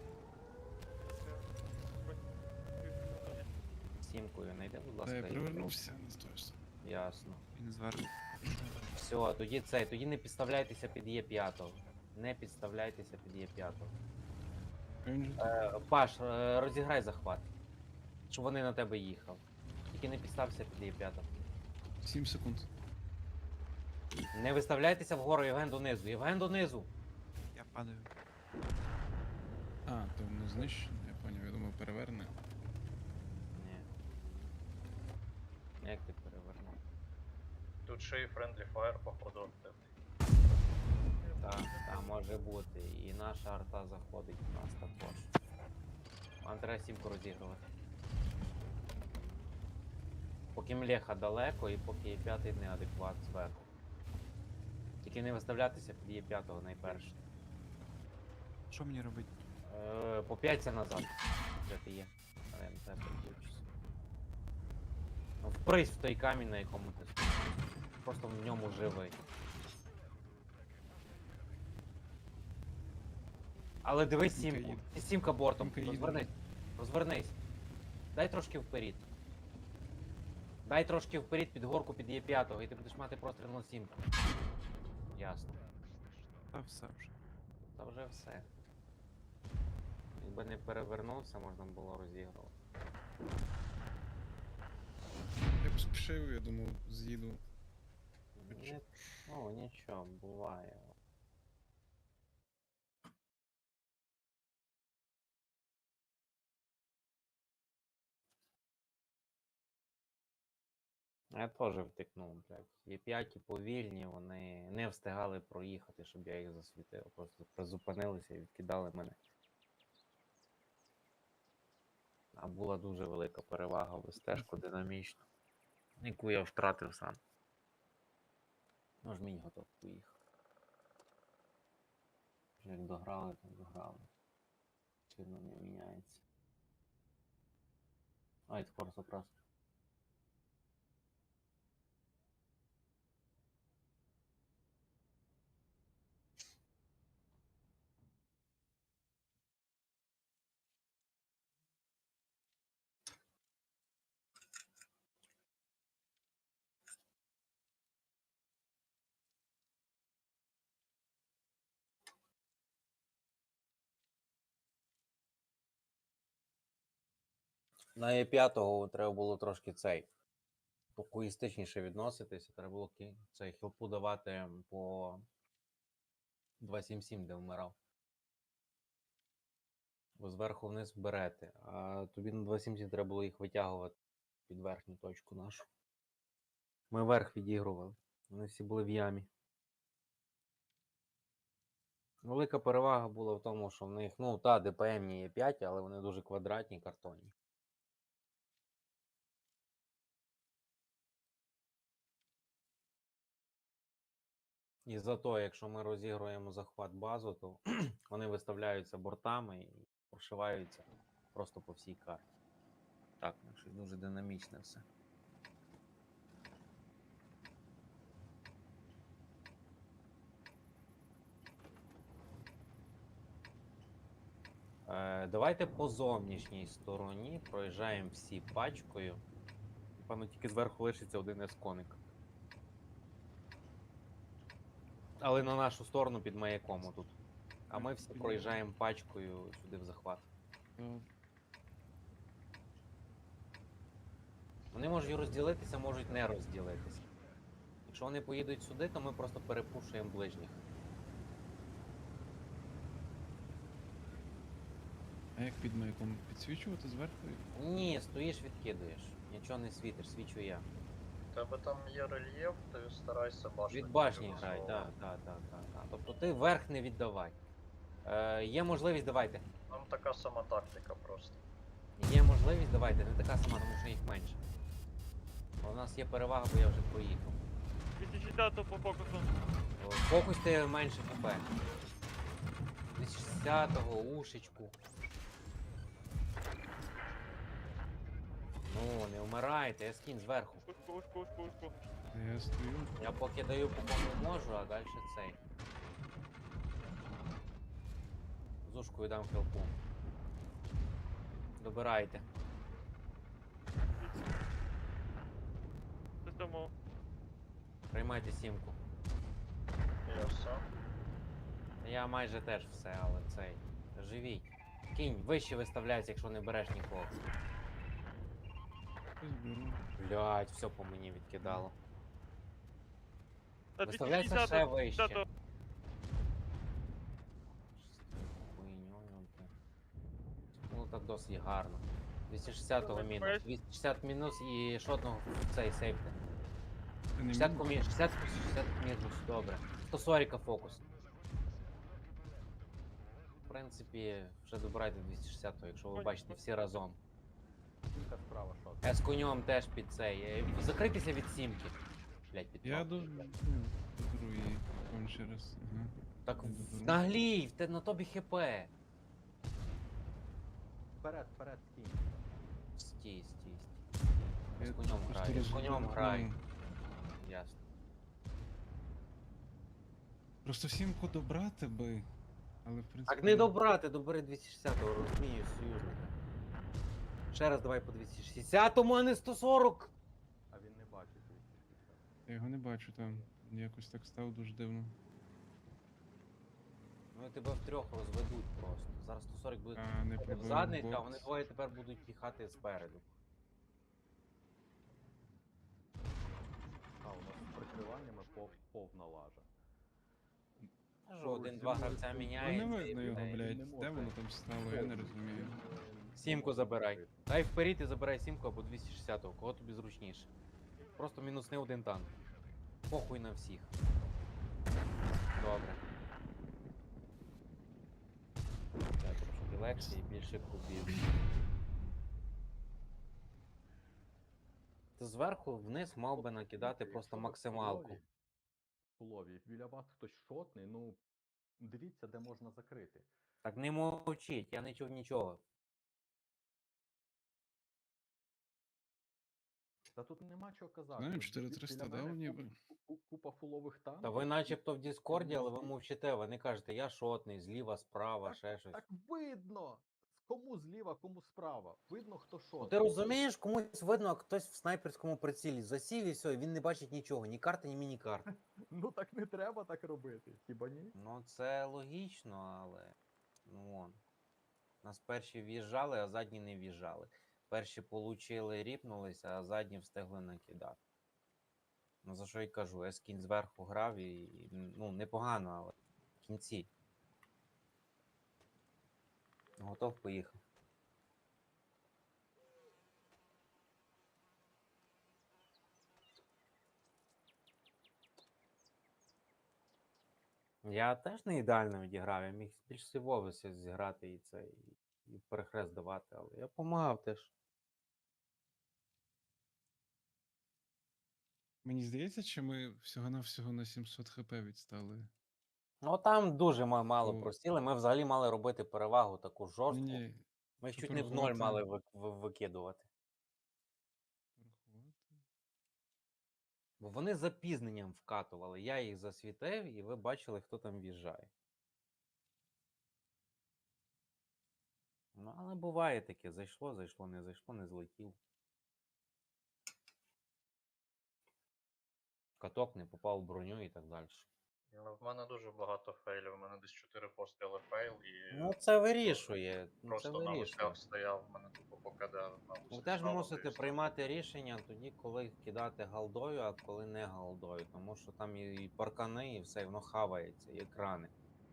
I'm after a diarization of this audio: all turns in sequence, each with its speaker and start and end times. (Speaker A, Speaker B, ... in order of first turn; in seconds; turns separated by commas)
Speaker A: 1.0-1.5, Speaker A: 2.8-3.5, Speaker B: 4.0-5.6, Speaker C: 5.0-6.6, Speaker B: 6.8-7.4, Speaker D: 7.5-8.9, Speaker B: 8.9-13.9, Speaker C: 15.0-15.5, Speaker B: 15.4-17.5, Speaker B: 18.3-21.3, Speaker C: 22.0-22.7, Speaker B: 24.3-26.9, Speaker D: 27.5-28.1, Speaker C: 29.9-32.3, Speaker B: 33.5-33.9, Speaker B: 35.8-36.8, Speaker E: 37.9-39.9, Speaker A: 41.2-42.2, Speaker B: 41.4-45.3, Speaker B: 46.4-47.6, Speaker B: 50.5-53.6, Speaker B: 55.0-57.2, Speaker D: 58.7-59.3, Speaker B: 59.6-63.6, Speaker B: 65.4-69.2, Speaker B: 73.8-77.3, Speaker C: 74.3-75.0, Speaker C: 75.5-76.3, Speaker B: 78.1-79.0, Speaker B: 80.6-84.0, Speaker B: 85.1-85.6, Speaker D: 86.5-87.2, Speaker B: 87.8-88.5, Speaker B: 90.2-92.5, Speaker C: 95.6-97.4, Speaker B: 98.3-100.9, Speaker C: 98.5-98.8, Speaker B: 111.3-119.2, Speaker B: 122.3-125.2, Speaker B: 126.0-127.2, Speaker B: 129.0-130.1, Speaker B: 132.6-134.1, Speaker B: 135.1-136.2, Speaker B: 138.5-139.3, Speaker B: 167.9-170.1, Speaker B: 170.9-175.2, Speaker B: 176.6-177.7, Speaker B: 180.2-183.9, Speaker B: 184.5-185.7, Speaker B: 186.9-189.3, Speaker B: 192.2-197.3, Speaker B: 204.8-212.3, Speaker B: 213.2-214.8, Speaker B: 224.8-229.2, Speaker B: 230.0-232.0, Speaker B: 235.2-237.1, Speaker C: 237.7-238.6, Speaker B: 237.7-240.3, Speaker C: 240.8-241.1, Speaker B: 244.7-247.0, Speaker B: 247.8-250.6, Speaker C: 255.3-257.4, Speaker B: 257.5-260.7, Speaker E: 261.3-264.9, Speaker B: 263.7-267.4, Speaker B: 268.0-269.4, Speaker E: 269.7-271.4, Speaker B: 272.0-274.4, Speaker B: 275.6-277.4, Speaker A: 278.0-279.3, Speaker B: 279.8-281.4, Speaker B: 282.9-284.7, Speaker B: 288.7-290.6, Speaker A: 290.6-291.7, Speaker C: 292.1-292.9, Speaker B: 293.0-295.4, Speaker B: 298.6-299.7, Speaker B: 301.6-302.2, Speaker A: 303.9-304.3, Speaker A: 306.2-306.7, Speaker B: 307.9-308.8, Speaker E: 310.1-310.6, Speaker B: 311.8-317.3, Speaker C: 319.2-319.9, Speaker B: 320.0-321.7, Speaker C: 321.4-321.7, Speaker A: 323.8-325.2, Speaker B: 323.8-325.2, Speaker B: 327.6-329.5, Speaker B: 330.7-336.1, Speaker A: 332.8-333.4, Speaker C: 337.1-337.8, Speaker B: 337.3-340.8, Speaker B: 343.5-347.0, Speaker A: 345.9-346.4, Speaker F: 347.9-349.0, Speaker B: 348.8-351.8, Speaker B: 352.3-353.3, Speaker C: 352.6-357.1, Speaker B: 356.2-358.7, Speaker F: 360.9-362.2, Speaker B: 362.8-366.3, Speaker C: 364.6-366.4, Speaker B: 367.2-367.6, Speaker C: 370.4-372.1, Speaker C: 372.6-373.6, Speaker B: 373.1-376.1, Speaker B: 377.3-379.9, Speaker F: 380.5-382.1, Speaker C: 382.3-385.0, Speaker B: 387.1-393.1, Speaker C: 389.8-391.5, Speaker F: 397.0-399.5, Speaker F: 400.6-407.2, Speaker B: 401.1-403.4, Speaker C: 402.4-405.6, Speaker B: 406.2-410.3, Speaker B: 411.0-412.1, Speaker B: 412.9-413.7, Speaker B: 415.4-415.8, Speaker B: 419.0-421.0, Speaker B: 425.0-428.0, Speaker F: 426.1-428.1, Speaker F: 429.0-431.0, Speaker F: 431.6-433.1, Speaker B: 433.4-435.4, Speaker F: 439.9-444.6, Speaker C: 441.0-442.6, Speaker B: 444.0-448.8, Speaker F: 445.1-445.7, Speaker F: 448.2-453.2, Speaker B: 452.6-458.3, Speaker F: 458.7-460.9, Speaker B: 460.9-462.9, Speaker B: 463.4-464.0, Speaker B: 464.8-470.8, Speaker B: 472.0-476.7, Speaker B: 479.6-480.4, Speaker B: 490.6-497.3, Speaker C: 501.6-505.1, Speaker B: 505.8-510.0, Speaker C: 507.0-507.3, Speaker C: 509.7-511.6, Speaker B: 510.6-512.9, Speaker C: 514.4-515.2, Speaker B: 516.8-521.3, Speaker B: 525.1-528.2, Speaker B: 532.4-534.3, Speaker E: 534.7-539.3, Speaker B: 538.3-540.8, Speaker E: 539.9-543.9, Speaker B: 542.7-551.1